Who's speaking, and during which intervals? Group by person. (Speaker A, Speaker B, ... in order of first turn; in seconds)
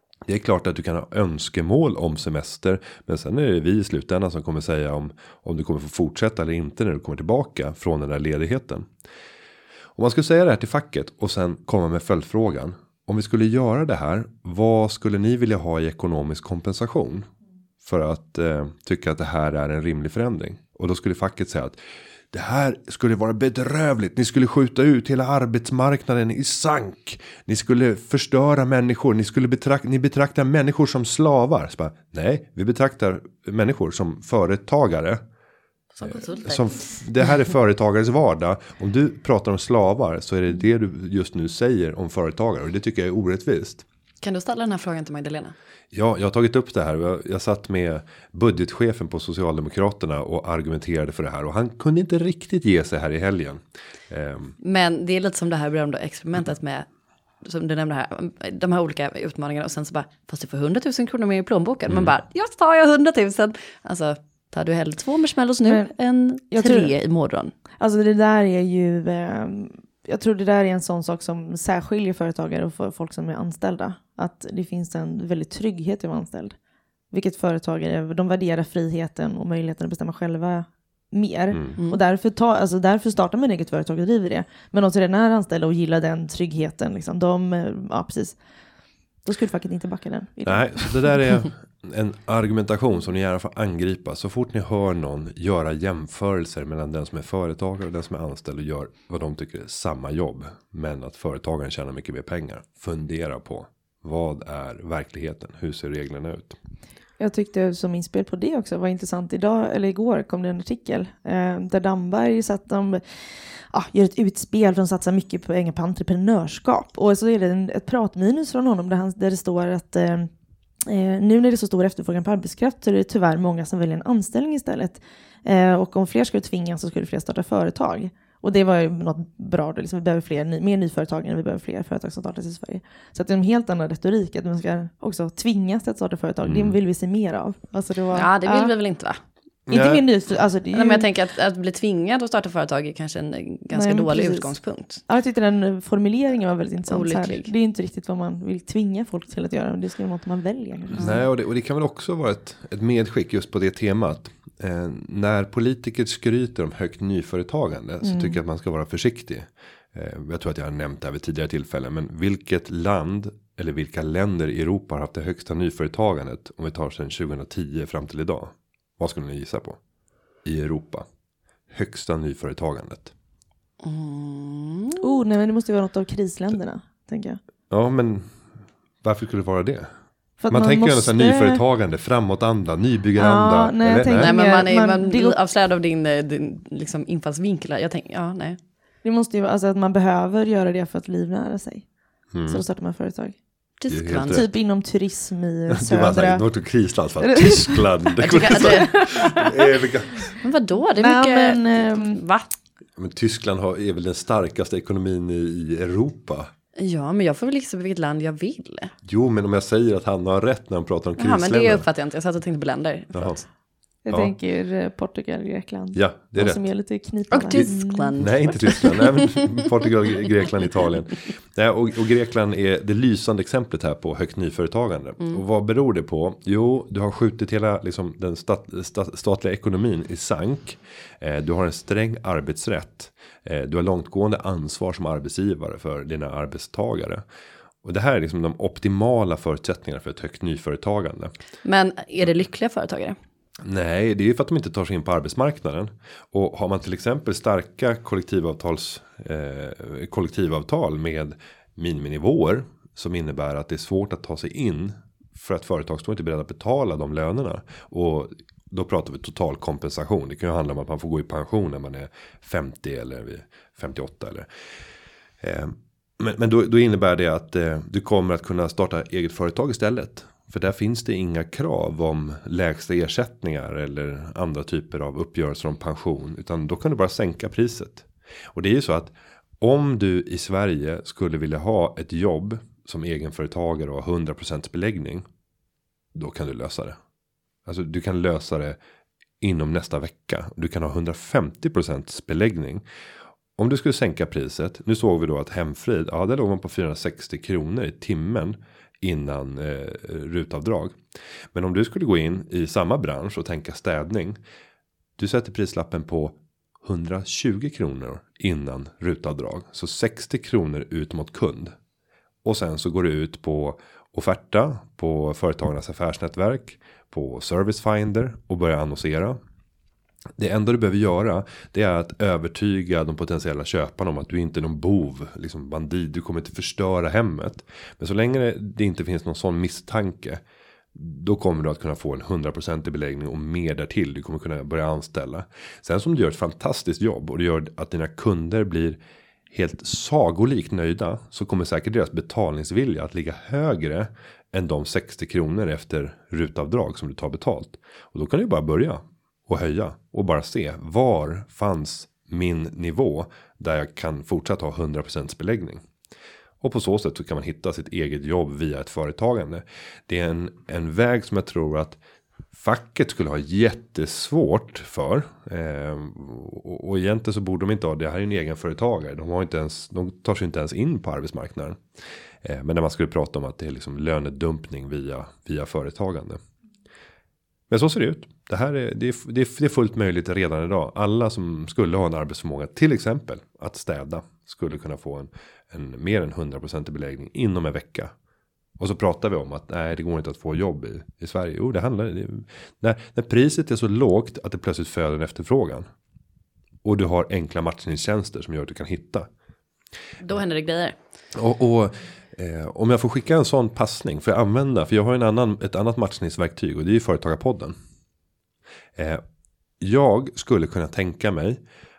Speaker A: 0.3-8.9, 10.0-17.3, 17.8-21.8, 22.3-35.2, 36.1-43.9, 45.9-54.5, 61.9-62.1, 81.5-81.8, 90.5-106.6, 136.4-136.8, 139.7-140.0, 150.9-169.8, 170.4-171.1, 171.7-173.1, 177.7-178.3, 179.0-179.9, 180.5-184.3, 192.3-192.6, 193.9-194.5, 195.7-200.3, 203.0-206.5, 209.0-211.8, 213.1-213.4, 215.9-216.6, 218.2-237.2, 237.8-241.3, 243.6-264.5, 265.4-285.2, 286.1-287.0, 287.7-288.8, 289.4-292.8, 293.6-301.0, 301.5-304.4, 305.2-311.8, 312.4-319.4, 320.4-330.4, 330.9-339.0, 339.5-355.9, 356.6-362.0, 362.6-371.8, 372.4-376.4, 377.7-388.1, 388.8-395.9, 396.8-399.3, 401.3-407.8, 409.0-409.2, 409.8-411.6
Speaker B: 36.0-36.8, 44.2-45.5, 54.6-56.9, 57.4-67.5, 138.1-139.2, 140.7-145.0, 146.9-147.5, 173.8-175.2, 184.1-188.6, 193.8-194.4, 198.2-198.9, 200.4-202.5, 206.8-208.9, 211.2-213.4, 217.3-219.6, 241.7-243.2, 400.2-401.0
Speaker C: 66.5-66.9, 67.8-76.6, 77.1-88.4, 89.2-91.2, 107.2-113.0, 113.7-120.3, 120.9-138.7, 139.7-141.1, 143.7-144.5, 145.1-151.2, 158.0-158.4, 175.0-177.4, 180.4-181.6, 183.2-185.3, 189.0-191.8, 192.5-193.4, 194.3-196.4, 197.2-199.8, 201.0-202.2, 214.1-218.2